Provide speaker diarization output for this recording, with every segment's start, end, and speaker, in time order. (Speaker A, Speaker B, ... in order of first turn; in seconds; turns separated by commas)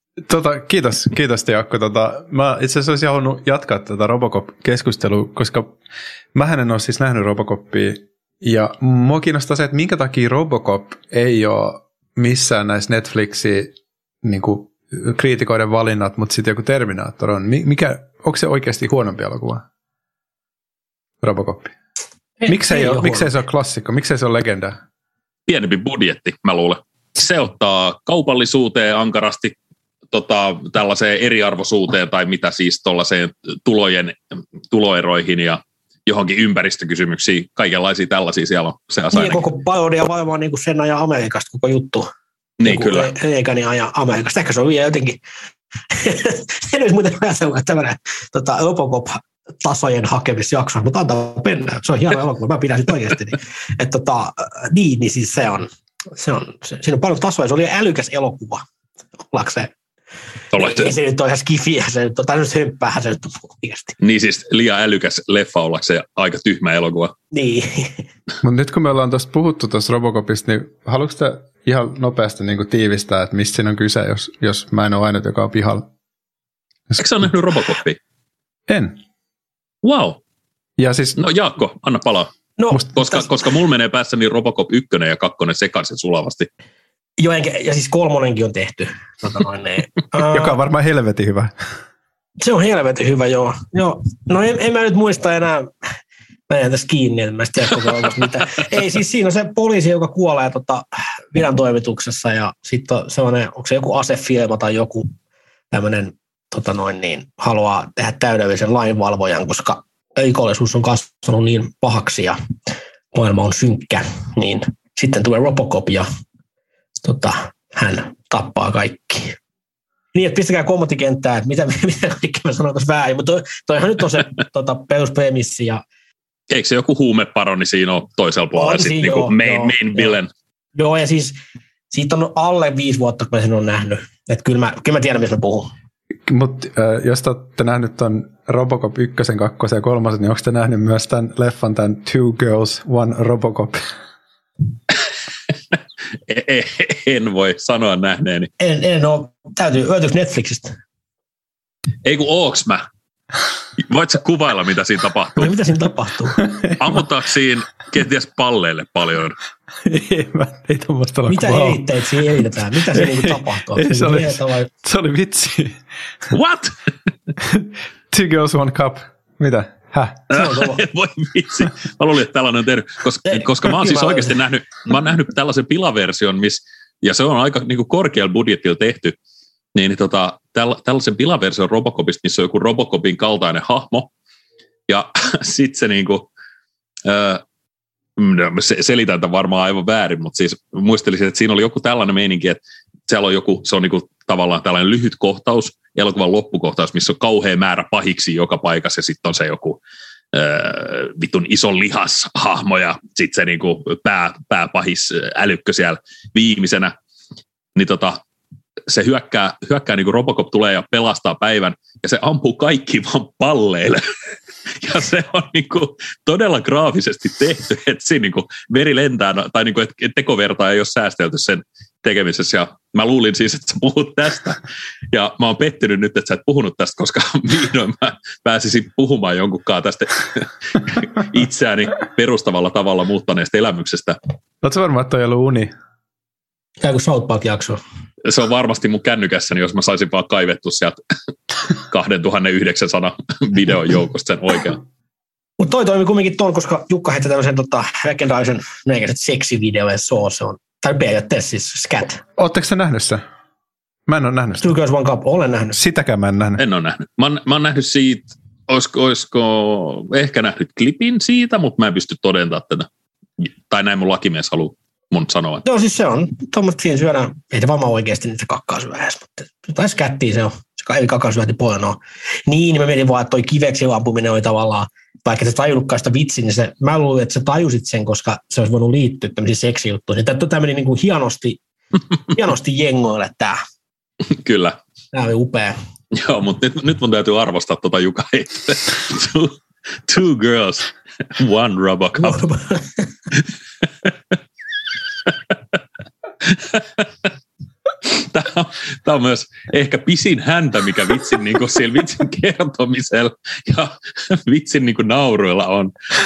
Speaker A: 0.3-5.7, Speaker A: 6.3-19.6, Speaker A: 21.2-21.7, Speaker B: 22.4-23.3, Speaker A: 22.5-24.8, Speaker C: 25.5-29.6, Speaker C: 30.1-34.2, Speaker C: 34.7-39.4, Speaker B: 39.1-42.1, Speaker C: 42.6-43.1, Speaker B: 42.6-45.2, Speaker B: 45.9-58.6, Speaker B: 59.2-59.7, Speaker C: 60.5-60.9, Speaker B: 60.5-63.9, Speaker C: 64.0-67.1, Speaker B: 67.3-68.0, Speaker A: 68.4-75.8, Speaker C: 77.0-78.0, Speaker A: 78.7-79.0, Speaker C: 79.8-80.2, Speaker A: 80.8-81.2, Speaker C: 81.2-86.5, Speaker B: 82.6-83.3, Speaker B: 87.2-90.5, Speaker A: 90.2-91.5, Speaker B: 92.4-95.7, Speaker B: 96.5-105.1, Speaker B: 105.7-112.3, Speaker B: 113.1-116.0, Speaker B: 117.0-119.4, Speaker B: 120.1-125.8, Speaker C: 126.5-130.3, Speaker B: 128.5-130.1, Speaker B: 130.7-131.4, Speaker B: 131.9-135.7, Speaker A: 136.2-143.8, Speaker C: 146.3-148.5, Speaker B: 148.6-150.8, Speaker C: 152.0-152.8, Speaker C: 153.8-155.5, Speaker B: 155.4-156.4, Speaker C: 156.8-159.4, Speaker A: 159.8-161.8, Speaker B: 161.3-164.7, Speaker A: 162.9-165.8, Speaker C: 166.3-166.7, Speaker A: 167.4-170.2, Speaker B: 170.3-170.8, Speaker C: 170.3-179.2, Speaker B: 173.3-174.3, Speaker C: 179.7-184.1, Speaker C: 184.9-186.3, Speaker C: 187.0-187.4, Speaker C: 188.2-199.8, Speaker C: 200.3-206.9, Speaker C: 207.7-208.2, Speaker C: 208.9-214.1, Speaker C: 214.8-224.6, Speaker C: 225.1-234.2, Speaker A: 234.6-235.7, Speaker B: 236.8-237.8, Speaker C: 238.2-241.0, Speaker C: 241.9-244.8, Speaker B: 245.6-252.2, Speaker A: 252.4-253.2, Speaker A: 254.1-254.7, Speaker B: 254.6-255.8, Speaker A: 255.7-256.6, Speaker C: 256.6-262.9, Speaker C: 263.4-265.6, Speaker B: 265.6-281.6, Speaker B: 282.3-283.6, Speaker C: 284.3-284.8, Speaker B: 285.1-285.8, Speaker C: 286.1-289.6, Speaker C: 290.1-292.5, Speaker B: 292.2-292.9, Speaker C: 296.4-297.3, Speaker C: 298.0-305.9